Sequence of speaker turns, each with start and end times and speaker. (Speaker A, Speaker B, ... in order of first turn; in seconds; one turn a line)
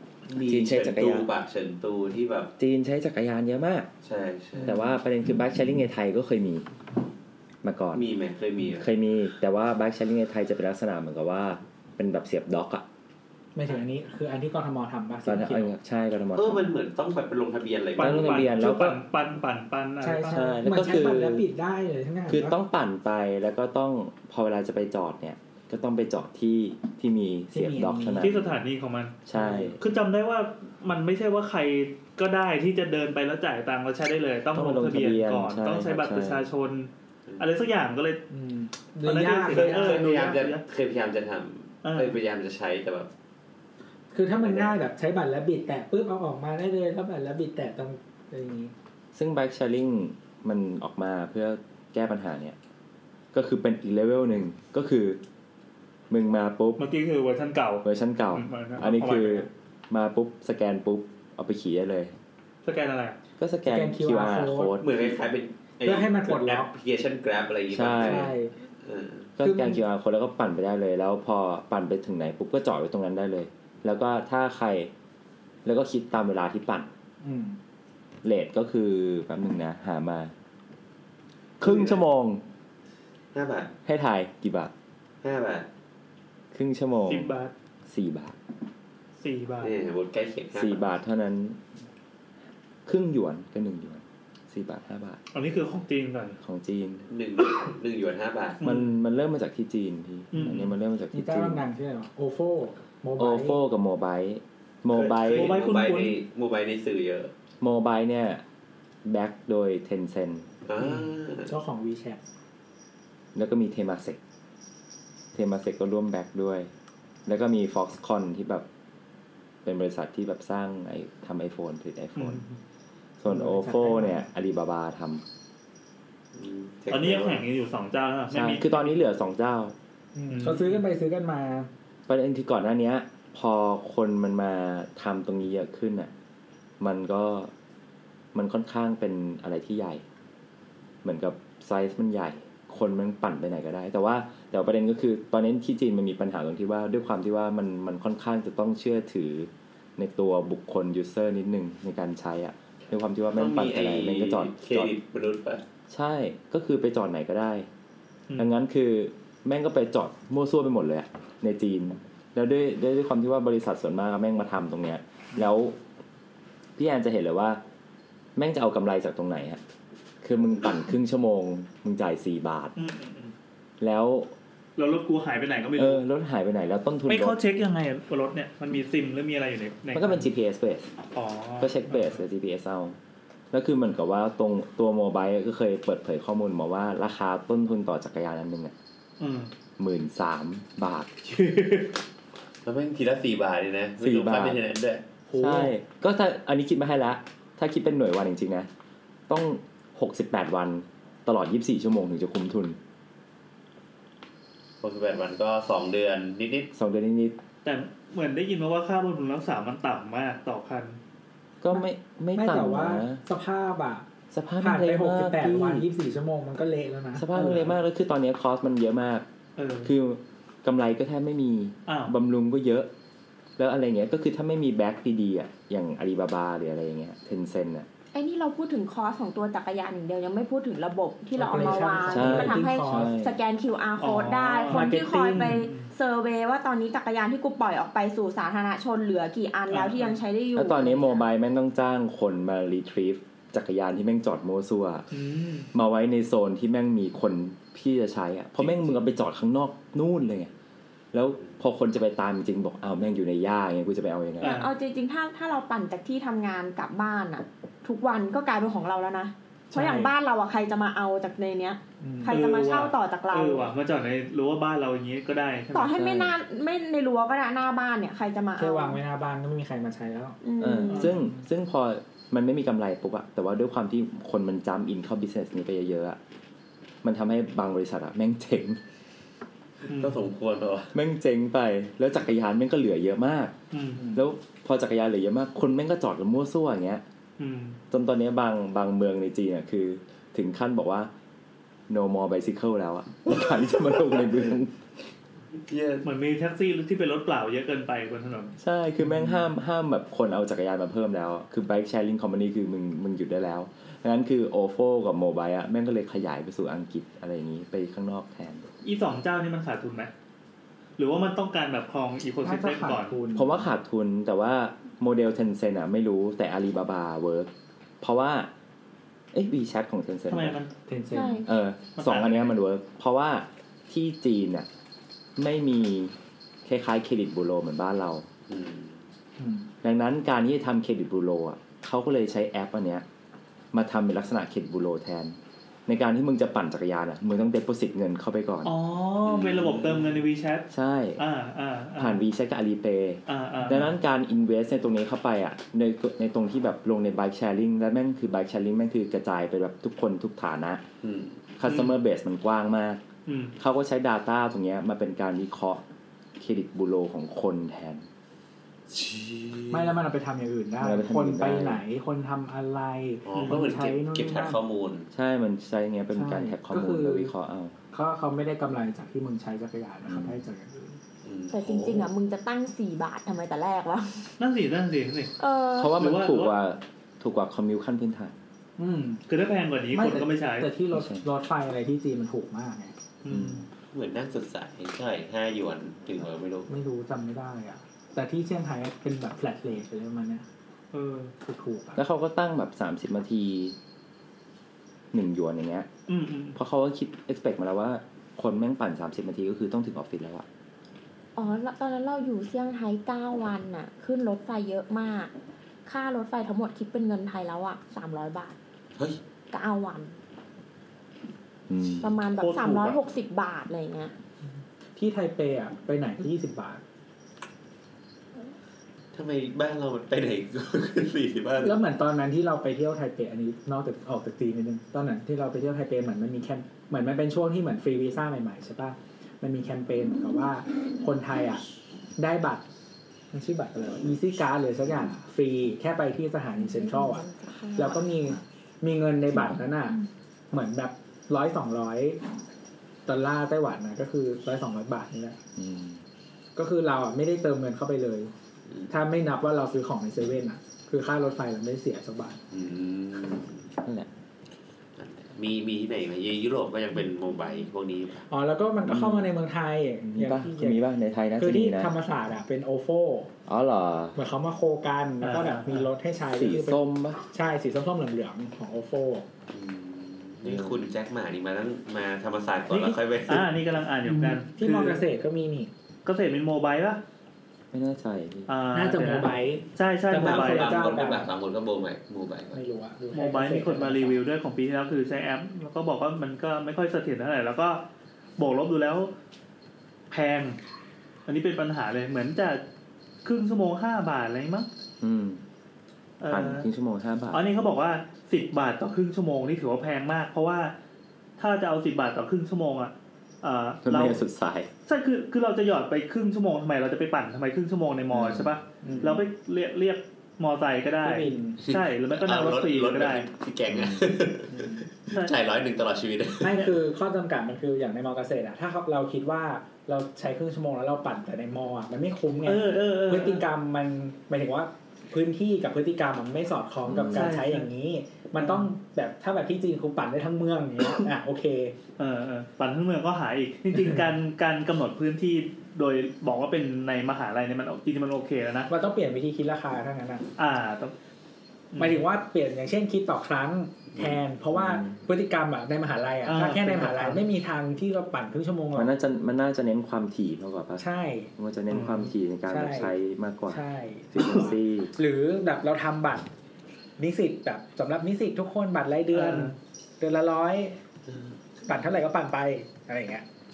Speaker A: 0.3-2.5
Speaker B: 0.4-1.3
Speaker B: 2.6-3.9
Speaker A: 4.0-4.8
Speaker B: 4.7-6.7
Speaker B: 7.6-8.1
Speaker A: 7.9-8.9
Speaker B: 8.7-12.8
Speaker C: 13.6-15.7
Speaker B: 15.2-16.8
Speaker A: 16.4-18.6
Speaker D: 18.0-21.0
Speaker B: 18.0-19.0
Speaker C: 20.0-22.6
Speaker B: 20.3-21.5
Speaker B: 22.3-28.6
Speaker C: 27.5-28.3
Speaker D: 28.2-38.2
Speaker B: 29.3-29.8
Speaker C: 29.4-29.8
Speaker B: 34.5-36.5
Speaker C: 38.3-40.4
Speaker D: 39.0-40.6
Speaker A: 39.5-43.1
Speaker D: 41.8-42.2
Speaker C: 44.1-48.7
Speaker A: 44.4-44.8
Speaker B: 49.1-52.6
Speaker B: 53.3-55.2
Speaker B: 56.1-56.8
Speaker D: 56.8-59.5
Speaker B: 57.8-62.1
Speaker D: 62.6-63.2
Speaker B: 63.4-64.9
Speaker C: 63.7-64.8
Speaker A: 64.8-69.3
Speaker C: 65.8-66.7
Speaker B: 67.7-68.3
Speaker C: 68.0-68.5
Speaker B: 69.4-74.9
Speaker C: 69.4-69.8
Speaker B: 75.7-76.9
Speaker C: 77.2-77.6
Speaker B: 78.2-80.3
Speaker B: 81.6-82.4
Speaker A: 81.6-82.0
Speaker A: 83.3-83.7
Speaker B: 83.9-84.7
Speaker A: 85.2-85.7
Speaker B: 86.5-87.3
Speaker D: 87.1-87.5
Speaker B: 87.9-88.4
Speaker D: 89.2-89.8
Speaker A: 89.6-90.8
Speaker B: 90.5-91.6
Speaker B: 92.9-95.2
Speaker D: 95.3-96.4
Speaker B: 96.4-97.1
Speaker A: 97.1-98.6
Speaker D: 98.6-99.0
Speaker B: 98.6-101.6
Speaker D: 100.3-100.7
Speaker C: 101.1-103.6
Speaker B: 103.2-105.6
Speaker A: 104.9-107.3
Speaker D: 105.3-106.2
Speaker B: 107.6-108.4
Speaker B: 109.0-110.5
Speaker A: 110.7-111.5
Speaker C: 111.5-112.2
Speaker B: 113.3-114.2
Speaker B: 115.3-116.7
Speaker B: 117.3-118.7
Speaker B: 119.7-122.4
Speaker D: 122.2-122.6
Speaker B: 123.2-125.2
Speaker C: 123.3-124.2
Speaker A: 126.3-127.4
Speaker D: 126.9-128.9
Speaker B: 128.3-129.8
Speaker C: 130.2-131.7
Speaker D: 130.3-130.8
Speaker B: 132.1-136.1
Speaker B: 136.8-137.5
Speaker B: 138.3-140.0
Speaker B: 141.0-154.9
Speaker A: 153.4-155.6
Speaker B: 155.9-157.7
Speaker B: 158.4-165.8
Speaker B: 166.8-167.6
Speaker B: 168.4-169.6
Speaker B: 170.2-172.8
Speaker D: 172.8-173.3
Speaker B: 173.8-174.3
Speaker D: 174.8-176.0
Speaker B: 175.8-177.4
Speaker D: 177.1-180.3
Speaker B: 179.9-180.9
Speaker D: 181.2-182.2
Speaker B: 181.6-183.0
Speaker B: 183.5-188.7
Speaker D: 189.2-189.5
Speaker B: 189.8-191.1
Speaker D: 191.3-191.9
Speaker A: 192.7-195.1
Speaker B: 194.0-194.6
Speaker D: 195.3-195.7
Speaker B: 195.3-198.7
Speaker B: 199.3-202.8
Speaker A: 204.8-206.7
Speaker B: 206.7-207.4
Speaker D: 207.6-211.0
Speaker B: 211.6-213.2
Speaker C: 212.3-214.1
Speaker B: 214.3-215.9
Speaker C: 214.6-217.3
Speaker B: 217.1-219.3
Speaker D: 217.3-217.8
Speaker D: 219.6-219.9
Speaker B: 219.8-222.9
Speaker D: 221.9-222.1
Speaker B: 223.6-227.9
Speaker E: 228.1-241.2
Speaker C: 231.4-233.1
Speaker B: 232.1-233.3
Speaker D: 234.0-235.9
Speaker C: 234.7-235.6
Speaker D: 239.7-240.2
Speaker B: 240.6-245.1
Speaker D: 245.1-245.7
Speaker B: 245.7-250.5
Speaker B: 251.1-254.6
Speaker E: 254.4-263.7
Speaker D: 254.4-254.7
Speaker C: 259.7-260.1
Speaker C: 262.0-262.4
Speaker D: 262.3-266.0
Speaker E: 265.7-269.0
Speaker B: 265.9-266.4
Speaker C: 268.6-270.4
Speaker E: 270.4-271.1
Speaker B: 270.6-276.2
Speaker B: 277.0-278.8
Speaker A: 279.9-280.9
Speaker D: 279.9-280.2
Speaker B: 280.9-283.6
Speaker D: 283.7-284.0
Speaker C: 283.9-284.2
Speaker B: 284.1-287.0
Speaker D: 287.4-287.8
Speaker B: 287.9-291.1
Speaker B: 291.9-294.8
Speaker A: 293.3-294.3
Speaker A: 295.7-296.1
Speaker D: 296.0-298.6
Speaker B: 298.6-308.7
Speaker D: 308.8-310.1
Speaker D: 311.0-313.2
Speaker C: 312.4-313.6
Speaker B: 313.4-317.5
Speaker B: 318.0-318.5
Speaker B: 319.3-320.6
Speaker D: 320.3-320.7
Speaker C: 320.9-321.4
Speaker E: 321.1-321.5
Speaker B: 321.5-324.7
Speaker D: 322.0-322.6
Speaker B: 325.4-326.1
Speaker B: 326.6-328.3
Speaker A: 328.5-329.0
Speaker C: 329.4-329.7
Speaker B: 329.8-333.1
Speaker B: 333.7-338.7
Speaker D: 338.6-342.2
Speaker A: 339.3-340.2
Speaker B: 340.7-341.2
Speaker B: 342.0-350.8
Speaker D: 343.3-343.9
Speaker A: 351.0-351.4
Speaker B: 351.6-353.0
Speaker D: 351.6-351.9
Speaker D: 353.3-353.6
Speaker B: 353.6-355.8
Speaker B: 356.4-358.1
Speaker A: 358.9-360.0
Speaker C: 359.7-364.6
Speaker B: 360.8-361.8
Speaker A: 363.2-365.1
Speaker D: 363.3-363.6
Speaker B: 365.1-367.8
Speaker C: 366.1-367.3
Speaker C: 367.9-371.0
Speaker B: 370.1-370.4
Speaker A: 371.2-372.1
Speaker E: 371.5-374.3
Speaker D: 374.4-375.3
Speaker E: 375.4-375.9
Speaker B: 375.8-378.4
Speaker D: 376.0-376.5
Speaker C: 378.8-379.2
Speaker D: 379.3-380.7
Speaker C: 379.9-382.9
Speaker B: 380.9-381.2
Speaker D: 383.2-383.7
Speaker B: 383.3-383.6
Speaker A: 383.9-386.7
Speaker C: 386.7-390.5
Speaker D: 390.9-391.3
Speaker C: 391.4-392.0
Speaker B: 392.0-393.8
Speaker B: 395.1-395.9
Speaker D: 396.1-396.6
Speaker B: 396.6-400.5
Speaker E: 401.4-405.3
Speaker E: 405.9-408.6
Speaker E: 409.5-410.2
Speaker B: 411.7-412.1
Speaker E: 412.0-414.1
Speaker D: 412.4-413.0
Speaker C: 415.0-416.8
Speaker A: 419.1-421.8
Speaker C: 421.6-431.6
Speaker C: 432.2-432.6
Speaker C: 433.3-437.2
Speaker E: 436.6-438.1
Speaker C: 437.8-440.0
Speaker B: 439.3-439.6
Speaker C: 440.5-442.2
Speaker C: 443.1-445.4
Speaker B: 445.6-446.0
Speaker C: 446.6-448.3
Speaker C: 448.9-452.4
Speaker A: 452.5-453.7
Speaker B: 453.8-454.1
Speaker A: 455.0-458.3
Speaker C: 458.3-460.8
Speaker B: 458.9-459.3
Speaker B: 460.1-461.9
Speaker C: 461.4-463.3
Speaker B: 463.5-464.2
Speaker C: 464.1-469.3
Speaker D: 465.2-465.9
Speaker B: 466.3-467.2
Speaker A: 469.5-473.5
Speaker B: 470.4-470.8
Speaker D: 473.3-475.0
Speaker C: 474.1-475.7
Speaker D: 476.1-477.0
Speaker B: 477.7-478.5
Speaker D: 478.5-480.9
Speaker C: 478.7-481.3
Speaker A: 480.2-482.6
Speaker C: 482.5-484.2
Speaker D: 483.1-487.8
Speaker D: 488.4-489.1
Speaker D: 490.1-490.6
Speaker D: 491.3-492.6
Speaker D: 493.2-494.7
Speaker B: 495.0-495.4
Speaker D: 496.2-496.7
Speaker B: 496.3-497.4
Speaker D: 497.3-500.7
Speaker D: 501.4-504.2
Speaker B: 503.8-504.7
Speaker D: 504.9-513.3
Speaker B: 508.1-508.5
Speaker C: 508.8-509.2
Speaker C: 511.0-511.6
Speaker A: 511.7-516.7
Speaker B: 513.7-514.1
Speaker C: 514.5-514.9
Speaker D: 515.1-515.4
Speaker C: 516.4-531.8
Speaker D: 522.5-523.4
Speaker B: 526.9-527.3
Speaker D: 527.1-527.7
Speaker D: 528.4-528.7
Speaker D: 532.0-538.7
Speaker C: 538.7-540.2
Speaker D: 540.4-540.9
Speaker D: 541.7-542.0
Speaker C: 541.8-548.9
Speaker B: 544.5-545.0
Speaker D: 546.3-547.2
Speaker B: 548.7-550.9
Speaker C: 550.8-551.3
Speaker B: 551.4-553.6
Speaker D: 551.7-552.1
Speaker C: 552.5-552.9
Speaker C: 553.5-556.3
Speaker B: 554.1-554.9
Speaker C: 557.0-560.8
Speaker D: 559.1-559.5
Speaker A: 561.1-561.4
Speaker C: 561.6-563.2